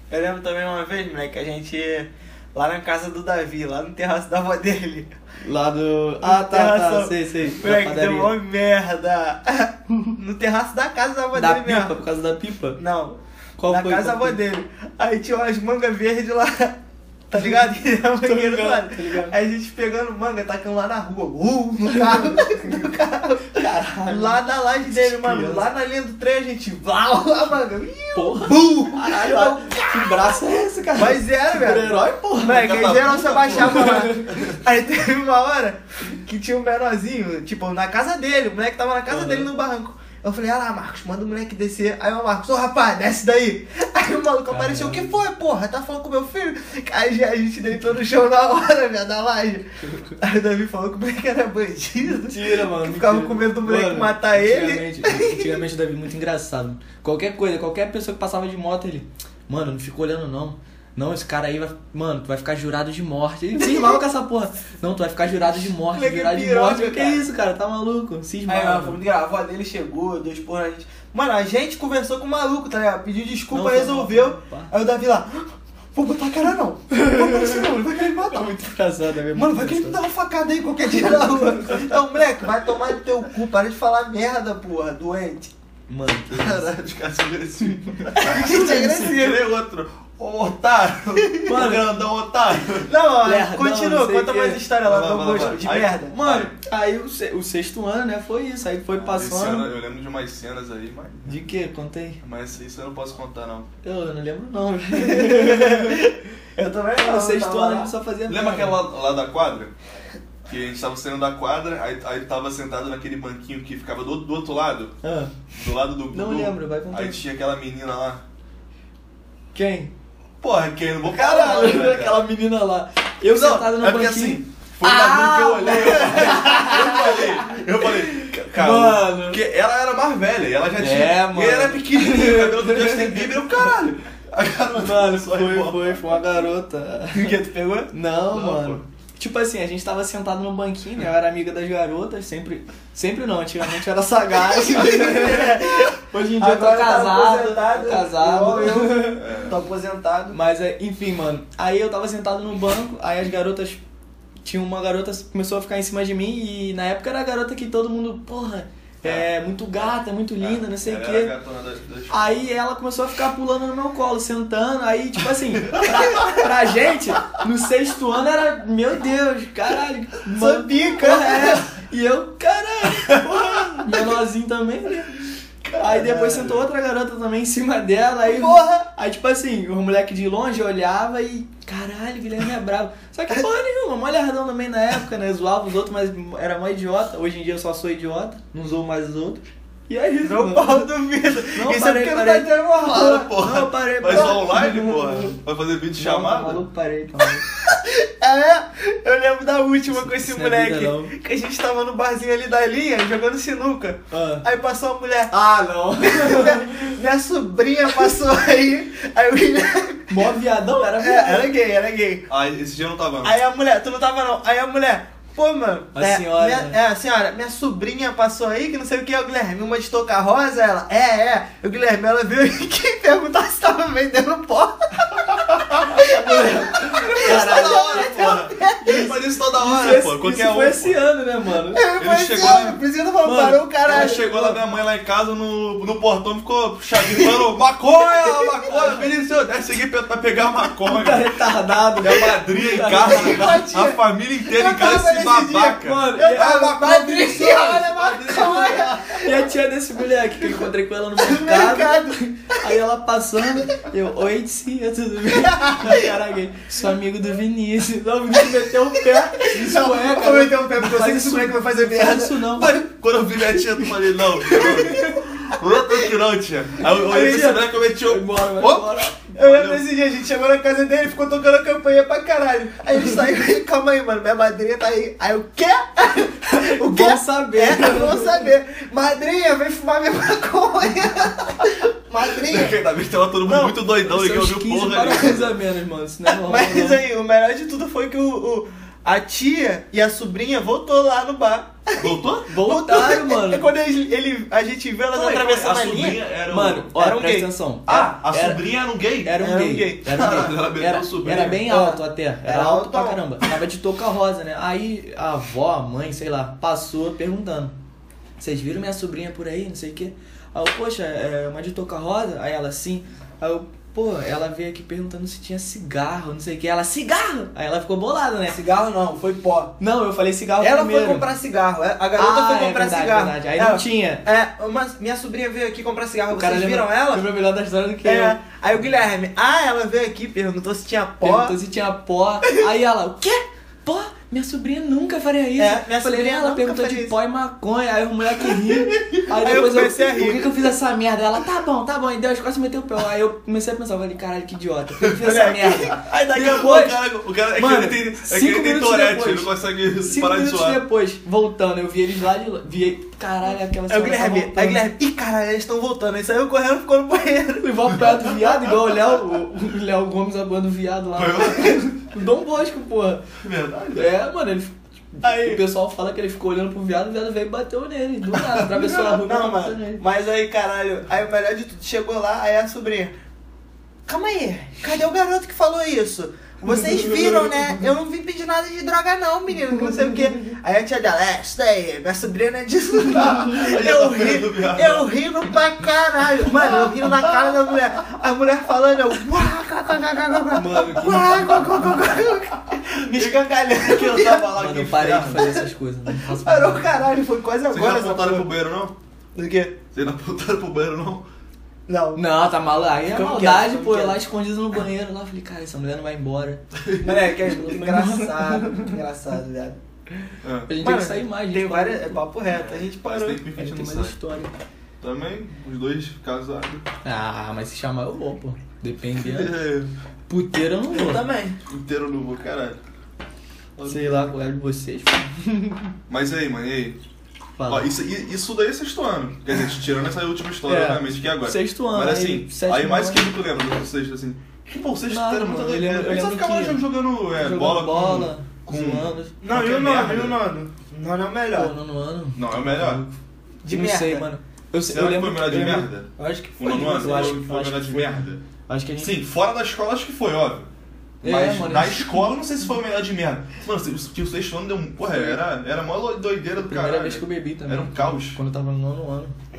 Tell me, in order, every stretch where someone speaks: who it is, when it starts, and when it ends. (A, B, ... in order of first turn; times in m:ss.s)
0:00.1-0:05.1 A
0:05.4-0:08.3 B
0:06.2-0:12.0 A
0:11.4-0:12.8 B
0:12.8-0:16.8 A
0:13.6-0:14.4 B
0:17.3-0:30.4 A
0:18.2-0:19.3 B
0:23.5-0:24.4 B
0:25.0-0:25.6 B
0:28.2-0:34.5 B
0:30.9-0:49.7 A
0:32.5-0:34.6 C
0:39.1-0:39.5 B
0:44.5-0:45.1 B
0:50.2-0:55.6 A
0:52.2-1:09.0 B
1:03.6-1:03.9 A
1:05.5-1:07.3 A
1:08.5-1:18.5 A
1:13.5-1:14.7 B
1:16.9-1:20.0 B
1:19.3-1:25.5 A
1:25.9-1:26.7 B
1:26.3-1:32.9 C
1:28.2-1:29.5 A
1:28.4-1:29.0 B
1:31.2-1:31.5 A
1:31.5-1:31.9 B
1:32.8-1:36.2 A
1:33.2-1:34.6 B
1:34.8-1:36.6 C
1:36.2-1:39.7 B
1:38.9-1:41.4 C
1:41.3-1:42.2 B
1:42.2-1:43.7 C
1:43.8-1:46.1 B
1:44.9-1:47.9 A
1:47.0-1:48.8 B
1:48.3-1:49.7 C
1:50.5-1:55.0 C
1:55.0-1:55.3 B
1:55.5-1:58.2 C
1:56.1-1:57.2 B
1:59.5-1:59.9 B
2:00.4-2:02.2 C
2:01.1-2:09.4 B
2:03.3-2:16.2 C
2:10.8-2:13.7 B
2:14.8-2:17.4 B
2:17.1-2:17.9 A
2:17.9-2:29.3 B
2:18.3-2:18.8 C
2:24.5-2:30.4 A
2:29.1-2:29.6 C
2:30.3-2:33.8 B
2:34.4-2:41.3 B
2:39.0-2:39.3 C
2:40.4-2:42.4 C
2:42.1-2:55.2 B
2:50.3-2:51.7 A
2:53.4-2:53.8 C
2:55.7-2:56.2 C
2:55.8-3:10.9 B
2:55.8-2:56.6 A
2:58.2-2:58.9 A
3:10.2-3:13.4 A
3:11.6-3:15.4 B
3:12.9-3:16.6 C
3:16.0-3:17.5 B
3:17.5-3:25.3 A
3:19.9-3:21.1 B
3:24.1-3:24.4 B
3:25.3-3:27.0 B
3:26.0-3:32.3 A
3:30.1-3:31.5 B
3:32.3-3:33.4 C
3:33.2-3:49.1 A
3:36.0-3:36.8 B
3:45.4-3:46.0 C
3:45.9-3:51.8 B
3:47.1-3:51.0 C
3:51.7-3:54.6 A
3:52.0-3:52.8 C
3:53.2-3:54.5 B
3:53.8-4:01.3 C
3:57.0-3:57.4 A
3:58.1-3:59.0 A
4:00.8-4:03.6 B
4:02.0-4:09.0 C
4:02.9-4:09.5 A
4:05.8-4:22.8 B
4:11.2-4:12.8 A
4:15.3-4:16.1 A
4:19.4-4:22.7 A
4:22.6-4:29.8 C
4:24.5-4:25.2 A
4:24.5-4:24.9 B
4:27.0-4:27.6 A
4:27.1-4:29.2 B
4:29.4-4:42.8 A
4:36.5-4:38.5 B
4:42.3-4:45.6 C
4:43.4-4:43.7 A
4:44.0-4:47.0 B
4:46.3-4:56.3 A
4:52.0-4:52.5 C
4:52.5-4:53.7 B
4:55.1-4:56.9 C
4:56.5-4:58.6 B
4:56.9-4:57.5 A
4:57.9-4:59.4 C
4:59.2-5:07.7 B
4:59.4-5:00.5 A
5:00.1-5:01.6 C
5:01.6-5:03.2 A
5:08.4-5:18.6 B
5:18.5-5:19.8 A
5:19.8-5:21.3 B
5:20.6-5:27.3 A
5:22.2-5:24.2 B
5:26.3-5:28.4 B
5:28.0-5:31.6 A
5:31.2-5:54.8 B
5:35.6-5:37.2 A
5:38.6-5:40.7 A
5:45.2-5:46.6 A
5:46.3-5:50.8 C
5:53.9-5:58.1 A
5:57.6-6:03.2 B
6:01.2-6:01.9 C
6:03.4-6:04.1 C
6:03.9-6:10.0 B
6:05.2-6:05.6 A
6:08.5-6:09.1 C
6:09.0-6:13.1 A
6:14.1-6:34.5 A
6:23.1-6:25.1 C
6:30.5-6:31.6 B
6:33.1-6:35.6 C
6:34.4-6:36.9 B
6:35.4-6:38.5 A
6:37.7-6:39.0 C
6:39.4-6:39.8 A
6:39.9-6:41.3 C
6:41.9-6:42.2 A
6:42.2-6:46.6 B
6:43.1-6:44.2 A
6:46.8-6:47.1 C
6:47.0-6:49.8 A
6:47.2-6:49.0 B
6:50.4-6:50.7 C
6:50.7-6:52.2 B
6:50.8-6:53.4 A
6:52.5-6:54.2 C
6:53.5-6:54.5 B
6:55.0-6:56.8 C
6:57.0-6:59.6 B
6:59.2-6:59.9 C
7:00.3-7:01.3 B
7:00.9-7:01.6 A
7:01.7-7:02.8 C
7:03.8-7:04.3 C
7:03.9-7:05.9 B
7:06.1-7:07.0 C
7:07.6-7:07.9 B
7:07.7-7:20.4 C
7:10.6-7:13.3 B
7:15.1-7:19.3 B
7:19.4-7:21.7 A
7:21.5-7:23.2 B
7:22.4-7:23.0 C
7:23.6-7:24.3 A
7:23.7-7:25.9 B
7:24.9-7:28.4 C
7:26.2-7:27.3 A
7:26.7-7:29.2 B
7:29.0-7:30.7 C
7:31.2-7:38.4 C
7:31.2-7:32.2 B
7:36.7-7:39.3 B